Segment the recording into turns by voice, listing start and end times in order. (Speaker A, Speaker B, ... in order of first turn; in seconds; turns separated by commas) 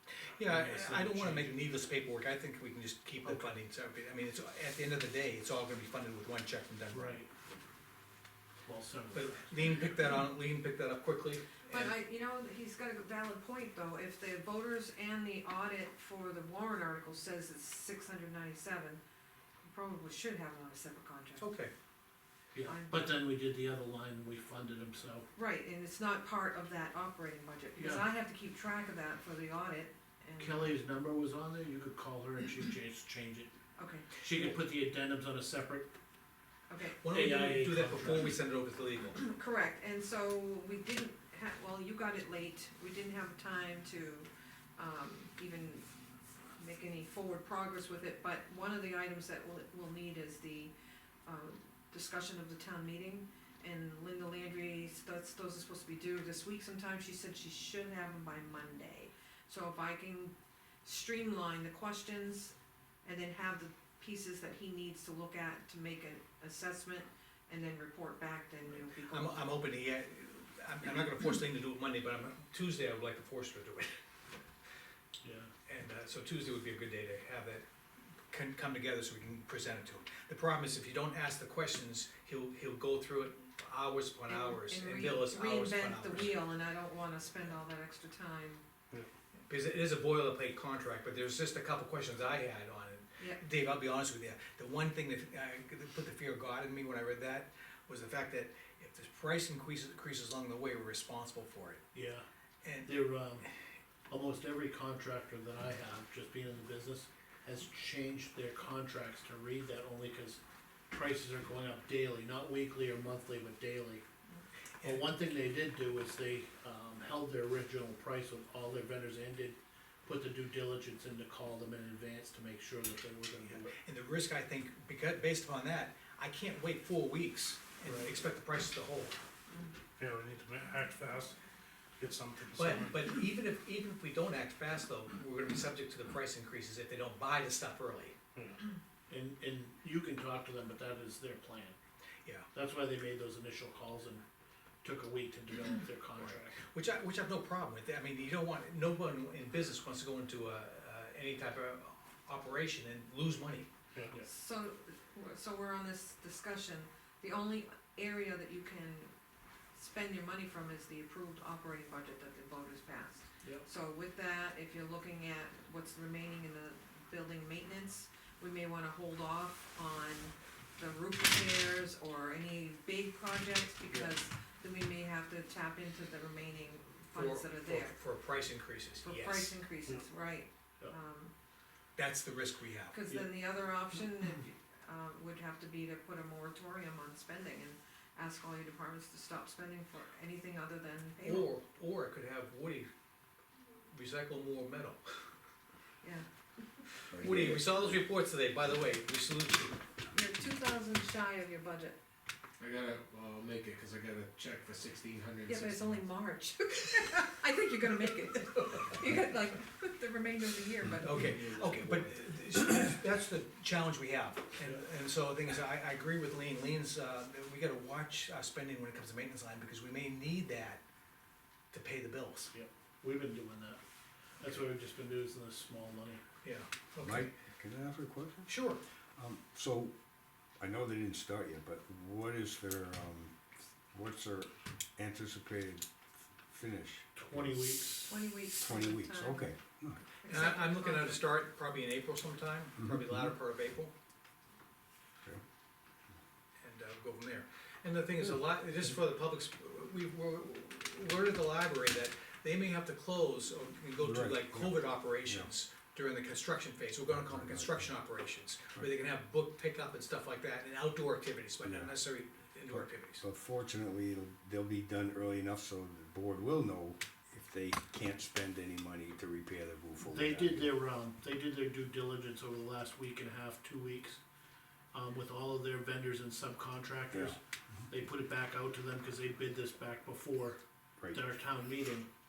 Speaker A: 0.1-7.2, Speaker B: 0.4-1.6, Speaker B: 3.2-3.5, Speaker B: 6.9-7.3, Speaker B: 8.6-9.4, Speaker A: 9.1-11.9, Speaker C: 11.7-19.0, Speaker C: 19.6-21.5, Speaker A: 21.4-21.7, Speaker B: 22.5-25.3, Speaker C: 22.6-23.1, Speaker C: 25.4-30.7, Speaker B: 27.8-28.1, Speaker B: 30.4-33.5, Speaker C: 33.8-34.2, Speaker B: 34.2-35.9, Speaker C: 36.7-37.0, Speaker A: 37.0-39.2, Speaker B: 37.1-38.4, Speaker C: 39.2-45.9, Speaker C: 46.6-50.7, Speaker C: 51.3-69.6, Speaker A: 69.0-74.0, Speaker B: 75.2-75.5, Speaker A: 75.7-77.6, Speaker A: 78.3-86.4, Speaker C: 84.3-88.6, Speaker A: 89.5-101.8, Speaker B: 101.9-102.2, Speaker A: 102.6-102.9, Speaker B: 102.8-103.5, Speaker B: 104.1-110.4, Speaker B: 110.9-114.0, Speaker B: 114.8-123.8, Speaker A: 123.5-129.2, Speaker B: 127.8-128.2, Speaker D: 130.0-131.4, Speaker D: 132.0-133.1, Speaker A: 132.6-138.2, Speaker B: 139.1-141.8, Speaker B: 142.5-144.2, Speaker B: 144.8-146.6, Speaker A: 146.2-153.7, Speaker B: 154.0-154.3, Speaker C: 154.2-159.1, Speaker C: 159.8-178.0, Speaker A: 177.2-179.6, Speaker C: 179.0-181.3, Speaker A: 182.0-183.0, Speaker C: 182.9-191.5, Speaker A: 191.2-192.9, Speaker A: 193.9-195.0, Speaker C: 196.0-196.8, Speaker E: 197.1-197.9, Speaker A: 197.1-199.8, Speaker C: 200.1-202.0, Speaker F: 202.6-205.9, Speaker C: 205.5-211.5, Speaker A: 211.0-220.8, Speaker B: 211.3-212.0, Speaker A: 221.7-222.5, Speaker B: 222.5-223.8, Speaker B: 224.4-226.2, Speaker A: 226.4-227.3, Speaker E: 227.0-228.5, Speaker A: 228.5-228.8, Speaker E: 229.2-229.9, Speaker E: 230.6-237.8, Speaker B: 237.2-238.2, Speaker C: 238.1-241.3, Speaker E: 238.5-240.0, Speaker A: 240.3-243.9, Speaker E: 242.8-243.3, Speaker A: 246.6-263.2, Speaker E: 254.0-255.5, Speaker E: 257.1-257.9, Speaker E: 261.6-262.0, Speaker E: 262.7-270.8, Speaker B: 270.0-274.2, Speaker B: 274.9-280.6, Speaker E: 277.1-277.4, Speaker B: 281.1-282.1